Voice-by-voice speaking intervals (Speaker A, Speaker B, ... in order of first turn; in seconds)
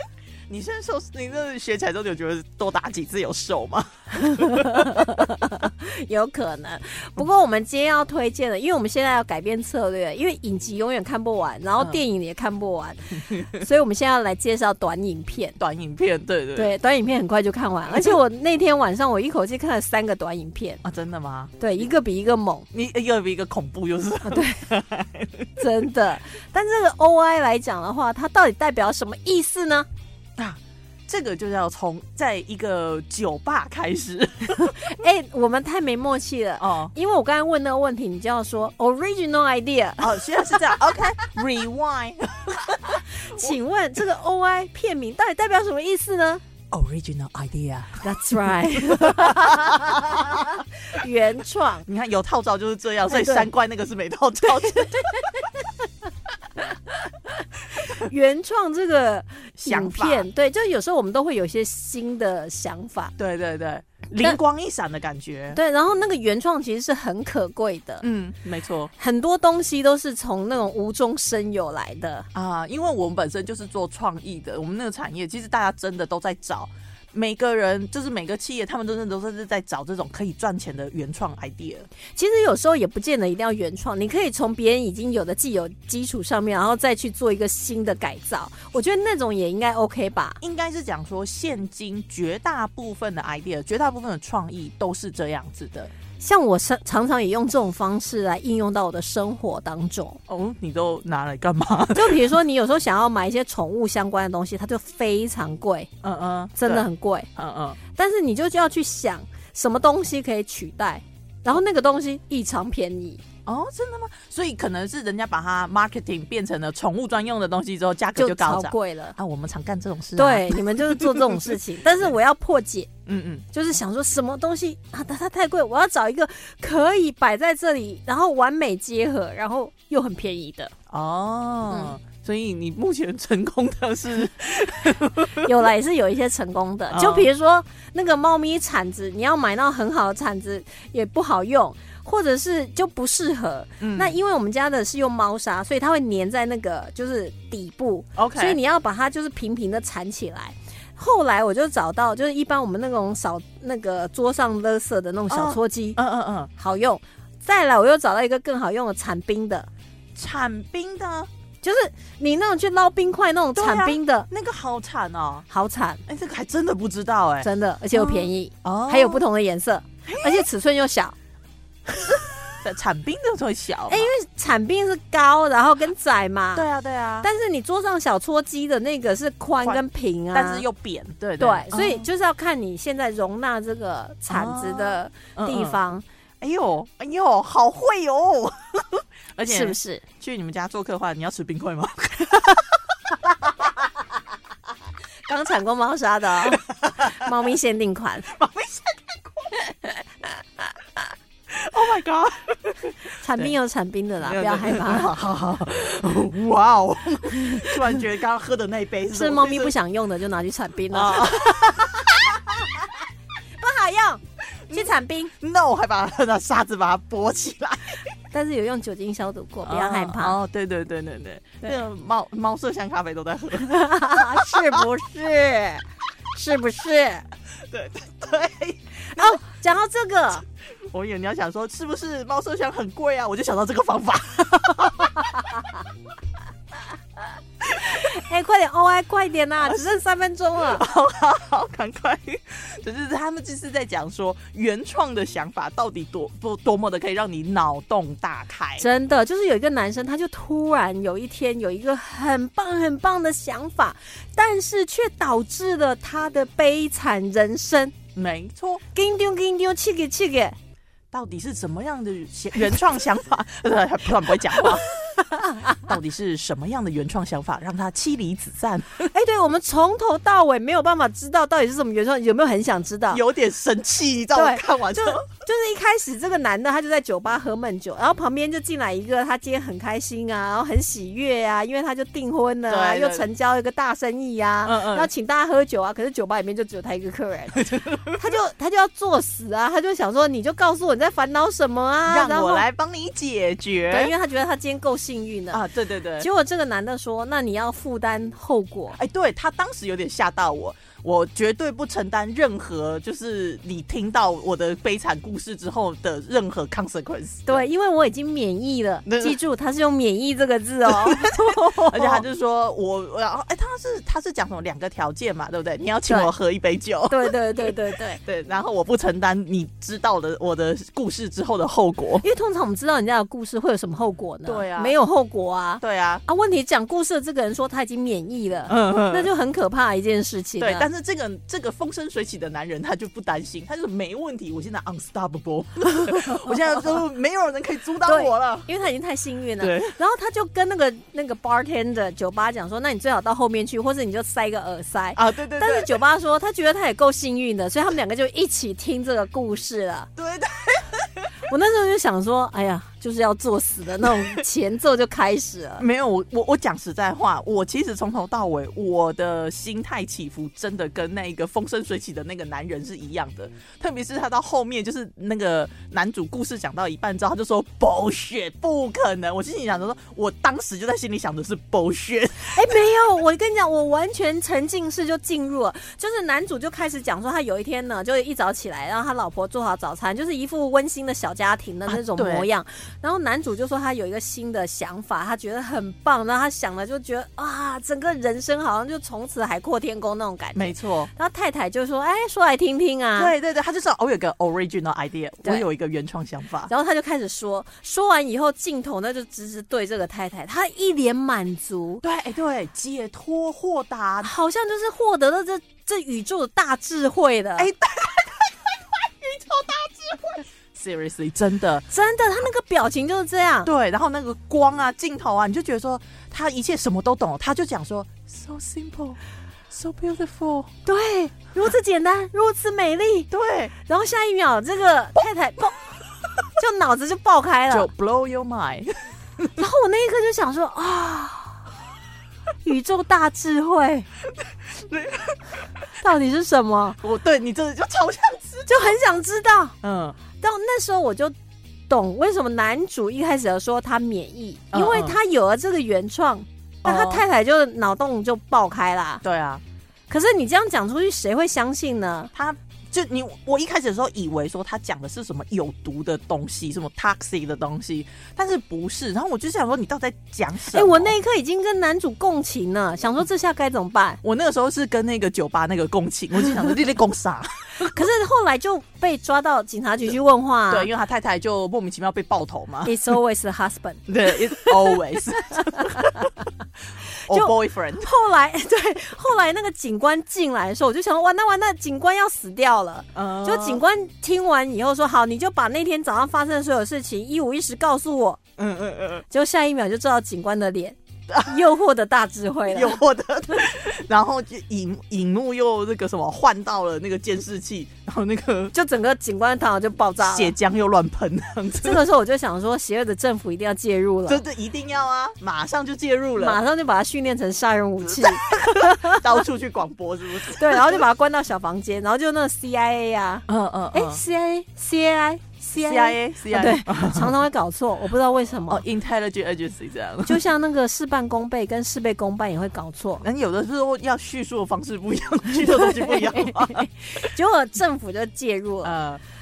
Speaker A: 0.5-5.2, 15.6-16.7, 20.8-21.5, 22.7-25.6, 30.4-34.9, 36.6-36.9, 40.0-43.5, 46.7-50.5, 51.9-55.4, 59.6-60.3, 63.2-65.6, 68.0-68.9, 72.3-81.9, 90.4-95.9, 100.3-102.3, 106.0-107.8, 113.5-122.1, 123.0-123.5, 130.9-135.5, 136.9-137.3, 143.8-144.2, 148.2-148.6, 155.3-156.5, 160.1-161.3, 163.5-165.5, 166.1-169.2, 170.0-170.5, 171.9-174.1, 176.5-177.3, 179.6-182.1, 184.3-185.8, 186.4-193.9, 196.4-197.3, 198.3-199.6, 201.5-203.5, 204.2-209.7, 210.9-212.9, 214.7-218.1, 219.6-224.8, 227.7-229.4, 230.9-235.7, 237.7-238.0, 240.6-248.8, 258.1-258.8, 261.1-264.9, 265.7-269.1, 273.1-275.2, 282.7-283.3, 284.6-285.1, 287.5-288.2, 292.1-294.1, 295.5-296.3, 298.9-307.6, 309.1-309.4, 310.9-322.2, 324.4-324.9, 325.8-326.2, 328.7-329.3, 330.6-338.7, 339.6-339.9, 345.1-346.0, 350.1-351.3, 354.0-354.4, 355.8-372.8, 381.9-382.5, 390.5-391.1, 393.1-396.7, 402.0-404.3, 407.6-411.9, 413.6-419.2, 419.7-420.7, 423.3-423.7, 427.7-429.6, 434.4-435.9, 437.0-439.0, 439.8-440.2, 444.7-445.2, 446.8-447.2, 449.2-449.6, 452.3-461.1, 464.2-467.9, 470.7-472.9, 474.1-476.3, 477.2-478.1, 483.1-483.8, 488.6-489.2, 491.3-491.6, 492.7-498.7, 500.2-502.0, 504.3-506.6, 508.1-511.0, 513.5-514.2, 515.8-517.3, 518.7-520.4, 523.2-527.3, 528.8-529.2
Speaker B: 4.2-15.6, 16.6-20.8, 21.6-22.7, 24.2-24.6, 25.6-29.9, 34.6-40.7, 43.2-46.4, 48.0-51.9, 53.1-53.5, 54.7-55.6, 57.8-63.1, 65.5-68.0, 69.0-72.3, 82.1-90.4, 96.2-100.2, 101.9-105.9, 106.6-107.3, 107.9-113.2, 118.2-119.2, 120.2-122.9, 123.5-130.7, 135.4-156.0, 156.6-159.7, 161.6-164.3, 165.5-166.0, 167.4-171.1, 173.9-176.7, 177.2-180.6, 181.4-186.0, 189.4-190.0, 195.3-198.3, 203.2-205.1, 209.1-211.7, 213.6-215.3, 218.3-220.4, 223.6-227.3, 229.1-230.4, 237.8-240.8, 248.8-257.9, 258.9-260.6, 269.1-273.2, 274.3-292.6, 293.9-295.6, 296.2-299.0, 307.5-312.2, 317.1-318.2, 322.2-330.9, 336.1-336.9, 338.1-350.1, 351.5-355.8, 372.4-393.3, 396.7-402.0, 404.2-407.7, 411.9-413.7, 420.9-423.3, 423.8-425.8, 426.6-427.9, 429.6-431.6, 432.6-434.1, 436.0-437.0, 438.7-439.8, 440.4-441.3, 441.9-449.2, 450.1-452.3, 460.7-464.2, 467.8-470.9, 472.8-475.0, 475.6-476.1, 477.3-488.4, 489.3-493.0, 498.7-500.5, 501.8-504.4, 506.4-509.2, 510.6-518.8, 520.2-523.2, 525.6-529.0